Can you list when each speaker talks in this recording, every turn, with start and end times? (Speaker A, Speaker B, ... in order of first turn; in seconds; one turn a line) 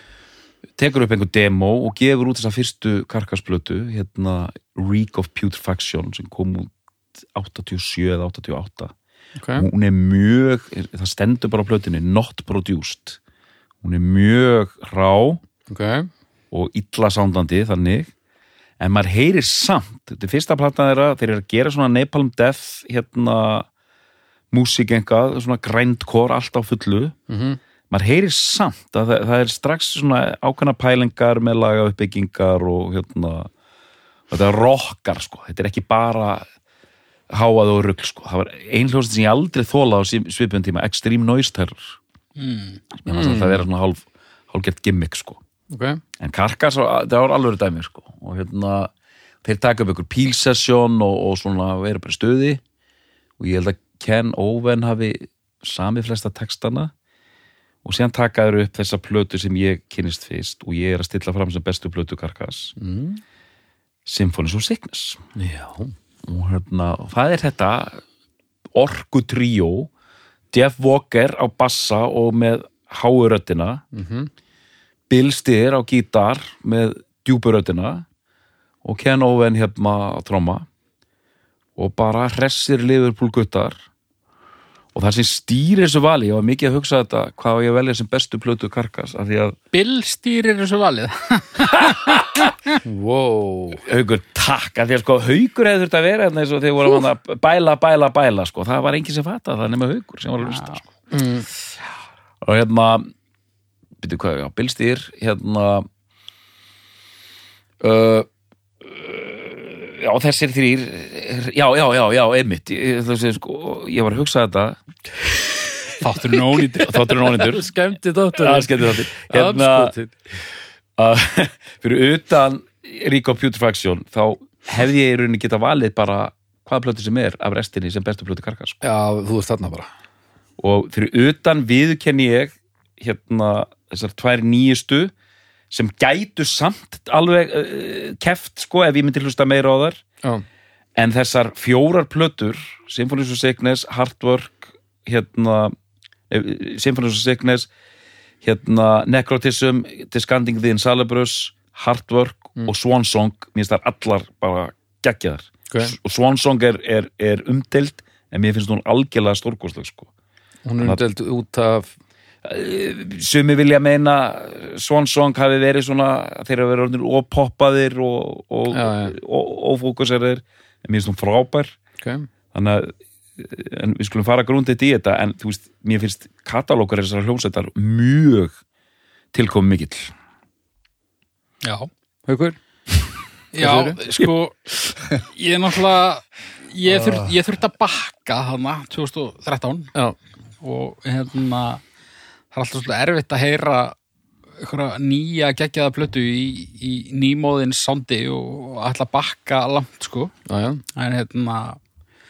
Speaker A: 0.8-6.7
Speaker A: 7.3-8.9
Speaker B: 9.4-9.7
Speaker A: 9.6-13.2
Speaker A: 13.8-15.4
Speaker B: 15.7-16.1
Speaker A: 16.5-18.1
Speaker A: 18.8-23.7
Speaker A: 24.5-27.1
Speaker B: 27.3-27.6
Speaker A: 27.9-33.5
Speaker A: 34.3-36.5
Speaker A: 37.3-42.0
Speaker C: 42.4-42.8
Speaker A: 43.0-45.4
Speaker B: 43.1-43.6
Speaker B: 45.7-46.0
Speaker A: 46.2-48.9
Speaker A: 49.4-52.6
Speaker A: 53.4-56.9
Speaker A: 57.9-62.7
Speaker B: 62.8-63.2
Speaker A: 64.1-65.2
Speaker B: 65.4-65.9
Speaker A: 66.3-68.0
Speaker A: 68.8-69.9
Speaker A: 70.5-73.8
Speaker B: 73.9-74.3
Speaker A: 75.1-78.0
Speaker A: 78.8-80.7
Speaker A: 81.8-83.8
Speaker A: 84.9-89.6
Speaker C: 89.7-92.5
Speaker A: 91.9-92.5
Speaker B: 92.8-93.8
Speaker A: 93.8-100.8
Speaker C: 100.5-100.8
Speaker B: 101.1-101.5
Speaker A: 102.4-103.1
Speaker A: 104.0-105.9
Speaker A: 107.8-108.3
Speaker A: 108.8-114.8
Speaker C: 116.0-117.1
Speaker A: 116.7-117.7
Speaker B: 117.2-120.1
Speaker A: 118.4-119.9
Speaker A: 121.0-128.8
Speaker B: 128.8-129.9
Speaker A: 130.6-135.1
Speaker A: 135.7-140.0
Speaker A: 141.0-145.7
Speaker A: 146.3-147.7
Speaker A: 148.4-160.1
Speaker B: 160.6-161.9
Speaker A: 162.4-171.8
Speaker B: 168.7-169.1
Speaker B: 172.0-172.3
Speaker A: 172.5-178.6
Speaker A: 179.3-180.1
Speaker C: 181.6-181.9
Speaker B: 182.3-182.6
Speaker C: 183.5-184.6
Speaker B: 183.6-184.0
Speaker C: 185.2-189.9
Speaker C: 190.6-191.8
Speaker C: 192.5-193.9
Speaker C: 194.6-200.3
Speaker B: 200.5-200.8
Speaker C: 200.9-201.8